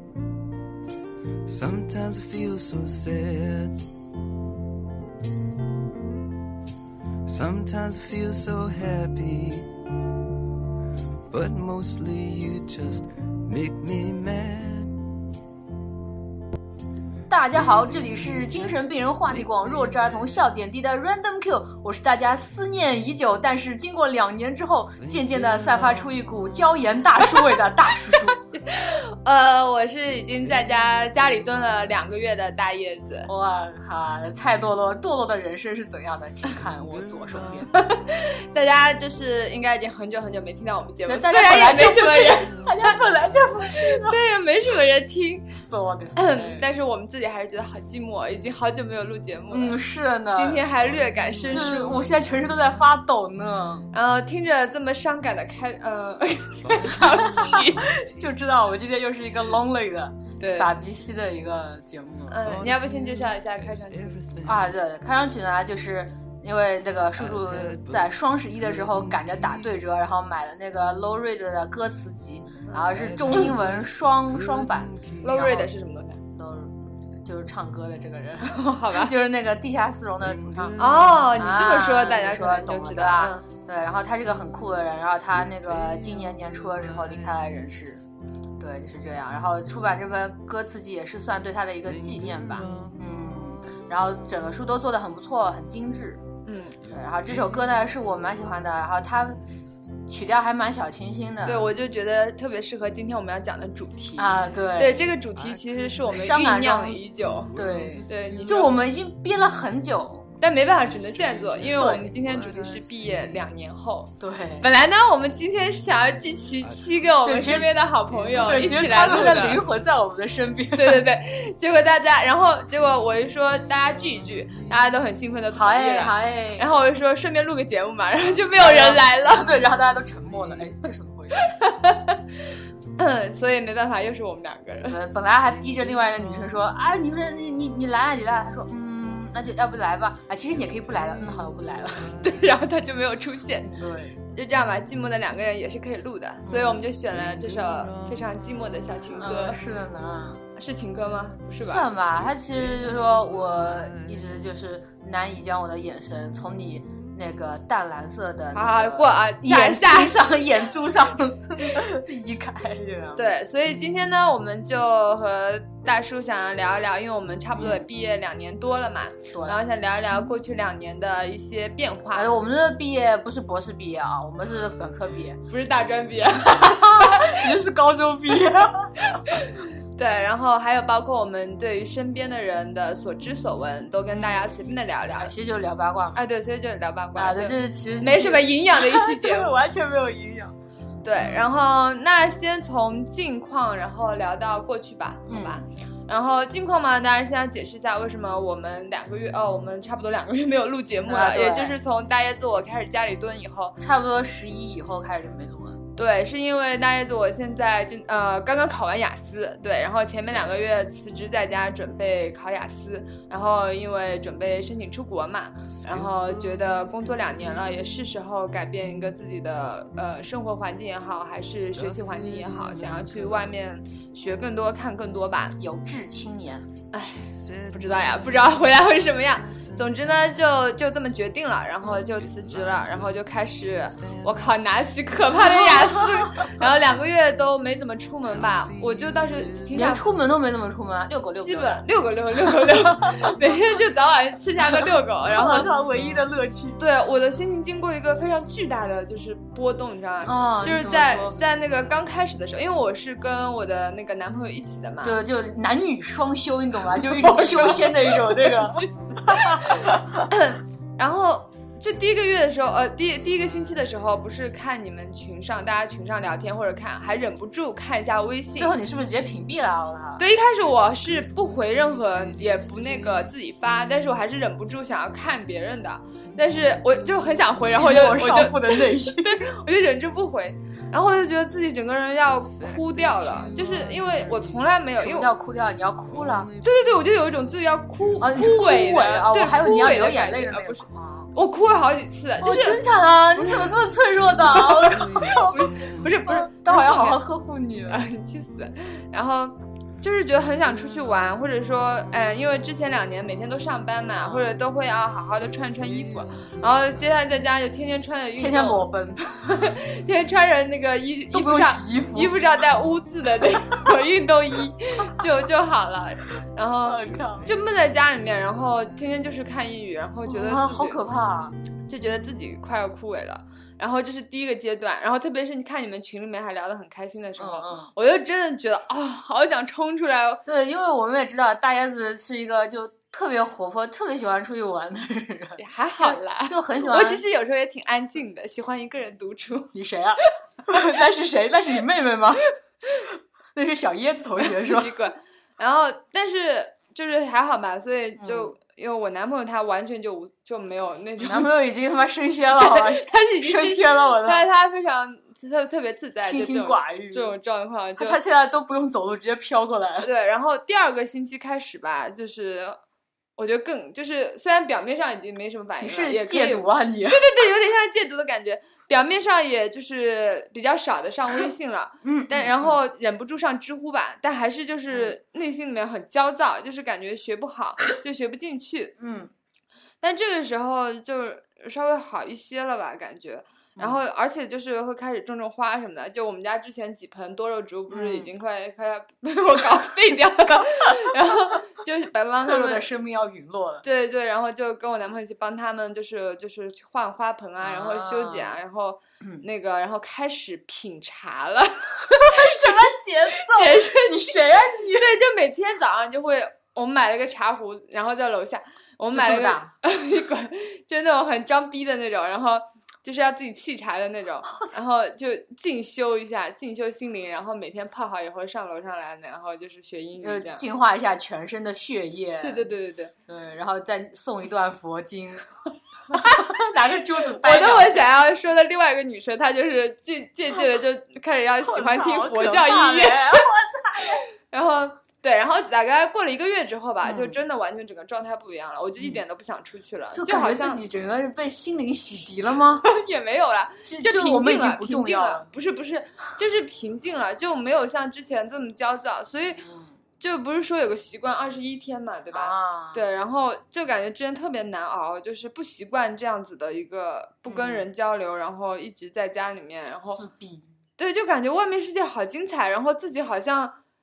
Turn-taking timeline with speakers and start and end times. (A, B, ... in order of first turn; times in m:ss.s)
0:01.5-0:03.9 A
0:07.2-0:09.8 A
0:11.3-0:15.1 A
0:17.3-0:28.4 B
0:25.3-0:26.0 A
0:28.5-0:33.3 C
0:33.3-0:37.9 B
0:37.7-0:42.9 C
0:41.1-0:44.2 B
0:43.6-0:45.5 C
0:45.6-0:46.7 B
0:46.2-0:49.8 C
0:49.5-0:50.7 B
0:50.3-0:52.1 C
0:51.5-0:53.9 B
0:53.9-0:57.8 C
0:56.6-0:57.6 A
0:57.2-1:02.7 B
1:00.4-1:00.7 C
1:02.3-1:04.2 C
1:02.4-1:04.7 A
1:04.4-1:15.7 B
1:07.2-1:09.6 A
1:12.7-1:13.5 C
1:12.9-1:15.2 A
1:15.2-1:16.2 C
1:16.3-1:28.0 B
1:18.4-1:19.1 C
1:20.6-1:20.9 A
1:20.8-1:23.4 C
1:28.6-1:36.2 B
1:32.1-1:32.9 A
1:36.4-1:36.8 C
1:36.9-1:39.4 B
1:40.1-1:41.7 B
1:41.4-1:47.5 C
1:44.2-1:45.0 B
1:45.4-1:45.8 A
1:46.1-1:47.0 B
1:47.4-1:48.7 A
1:47.5-1:50.3 B
1:48.1-1:48.8 C
1:50.4-1:59.6 C
1:50.9-1:53.4 A
1:51.8-1:52.2 B
1:54.2-1:54.7 B
1:57.2-1:57.8 B
1:58.1-1:59.6 A
1:58.3-2:01.1 B
2:00.7-2:09.5 C
2:05.5-2:06.7 B
2:08.6-2:11.5 B
2:11.4-2:12.2 C
2:13.0-2:15.0 C
2:14.9-2:22.2 B
2:22.2-2:23.7 C
2:23.6-2:24.2 B
2:24.3-2:29.6 C
2:26.4-2:26.9 B
2:27.3-2:28.2 A
2:29.2-2:30.4 B
2:30.6-2:31.9 C
2:31.6-2:43.3 B
2:38.5-2:40.3 C
2:43.2-2:52.4 C
2:49.3-2:49.6 B
2:52.1-2:55.4 B
2:55.5-2:57.4 C
2:56.5-2:59.1 B
2:59.4-3:05.3 C
3:04.1-3:04.5 B
3:05.1-3:06.2 B
3:06.2-3:09.6 C
3:07.2-3:10.6 B
3:11.0-3:23.8 C
3:15.3-3:15.6 B
3:21.1-3:21.8 B
3:23.8-3:25.8 B
3:26.0-3:45.6 C
3:35.8-3:36.5 A
3:41.7-3:43.5 A
3:45.6-3:46.7 B
3:46.9-4:00.1 C
3:47.3-3:48.8 A
3:49.4-3:50.0 A
3:51.9-3:53.2 A
3:53.9-3:54.4 A
3:55.5-3:56.5 B
3:58.5-3:59.9 A
3:59.7-4:01.9 B
4:01.4-4:05.7 C
4:02.6-4:03.3 B
4:05.3-4:06.8 B
4:06.8-4:15.2 C
4:10.2-4:11.4 B
4:15.0-4:20.3 B
4:17.0-4:28.8 C
4:28.6-4:30.2 B
4:30.2-4:45.3 C
4:37.7-4:39.5 B
4:42.7-4:44.6 A
4:45.0-4:46.5 B
4:46.6-4:52.8 C
4:48.2-4:51.3 B
4:52.4-4:58.0 B
4:53.4-4:53.8 C
4:54.5-4:57.2 C
4:57.9-5:08.9 C
5:04.2-5:04.5 B
5:08.4-5:09.3 B
5:09.4-5:21.0 C
5:11.3-5:12.4 B
5:16.8-5:17.5 B
5:20.3-5:21.6 B
5:21.9-5:30.4 C
5:27.4-5:27.9 B
5:30.5-5:37.2 B
5:35.6-5:39.7 C
5:39.7-5:42.5 B
5:43.0-5:44.9 B
5:44.4-5:51.5 C
5:48.2-5:48.6 B
5:51.2-5:54.5 B
5:52.6-5:58.2 C
5:56.2-5:57.4 B
5:58.0-6:00.1 B
6:00.0-6:02.8 C
6:03.4-6:18.9 C
6:05.8-6:07.3 B
6:12.0-6:12.8 B
6:19.0-6:19.3 B
6:20.0-6:32.9 C
6:23.8-6:24.0 B
6:27.9-6:28.3 B
6:30.6-6:30.9 B
6:32.4-6:33.9 B
6:33.8-6:42.9 C
6:37.6-6:38.6 B
6:42.1-6:45.1 B
6:43.5-6:44.4 C
6:44.9-7:00.6 C
6:49.1-6:49.7 B
6:54.5-6:54.7 B
7:00.2-7:02.7 B
7:02.4-7:03.1 C
7:03.3-7:05.5 B
7:06.1-7:06.6 C
7:06.1-7:08.1 B
7:07.3-7:13.5 C
7:11.6-7:14.2 B
7:14.0-7:20.8 C
7:17.0-7:17.4 B
7:20.1-7:22.9 B
7:22.8-7:29.6 C
7:23.9-7:25.5 B
7:29.6-7:30.0 B
7:30.2-7:40.2 C
7:32.3-7:33.0 B
7:37.5-7:37.9 B
7:40.2-7:40.7 B
7:41.0-7:43.8 C